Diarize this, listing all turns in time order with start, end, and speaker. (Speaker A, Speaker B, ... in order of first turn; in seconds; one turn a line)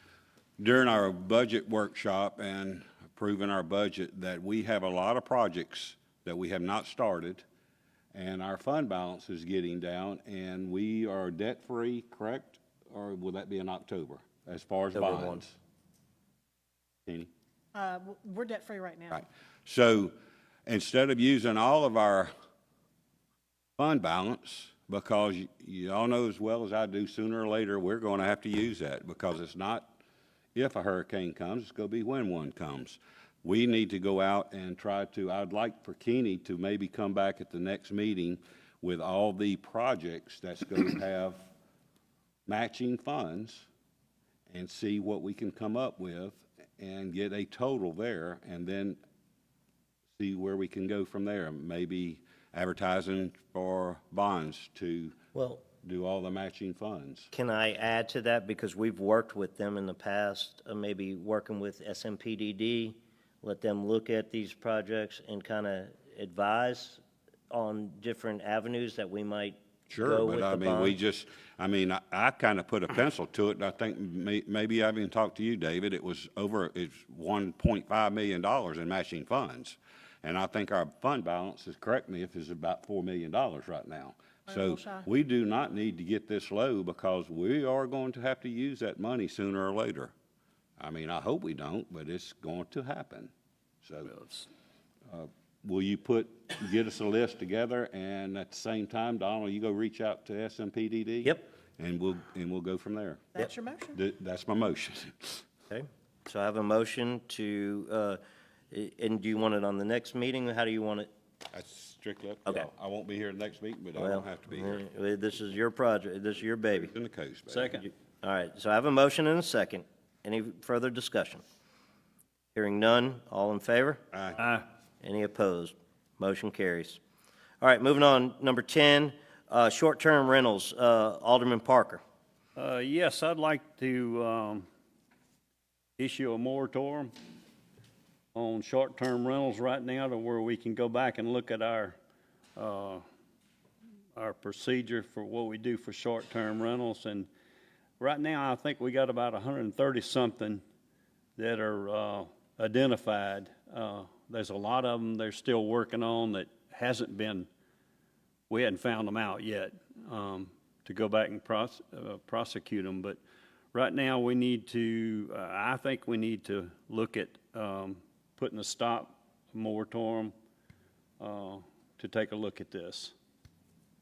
Speaker A: 0.6-7.4
Speaker A: 8.1-15.6
Speaker B: 14.9-15.4
Speaker C: 17.7-19.2
Speaker A: 19.1-20.1
Speaker A: 20.7-22.3
Speaker A: 23.8-30.0
Speaker A: 30.6-41.4
Speaker A: 42.5-43.7
Speaker A: 44.5-49.0
Speaker A: 50.2-57.3
Speaker B: 55.3-55.6
Speaker B: 57.3-71.0
Speaker A: 69.9-90.1
Speaker C: 84.5-85.0
Speaker A: 90.8-93.3
Speaker A: 93.8-94.1
Speaker D: 94.1-94.5
Speaker A: 95.1-103.4
Speaker C: 103.4-104.0
Speaker A: 103.9-105.4
Speaker B: 105.7-108.2
Speaker B: 108.7-111.1
Speaker A: 111.5-114.8
Speaker B: 114.0-116.9
Speaker A: 116.7-117.9
Speaker D: 117.5-117.8
Speaker B: 118.2-121.4
Speaker B: 122.5-124.0
Speaker A: 124.1-124.4
Speaker D: 124.4-124.7
Speaker B: 125.0-127.0
Speaker B: 127.6-132.0
Speaker D: 132.6-134.7
Speaker D: 136.0-137.1
Speaker D: 138.3-141.9
Speaker D: 142.6-143.0
Speaker D: 144.2-147.3
Speaker D: 148.0-150.6
Speaker D: 151.4-157.5
Speaker D: 158.5-163.2
Speaker D: 163.7-170.3
Speaker D: 171.2-173.1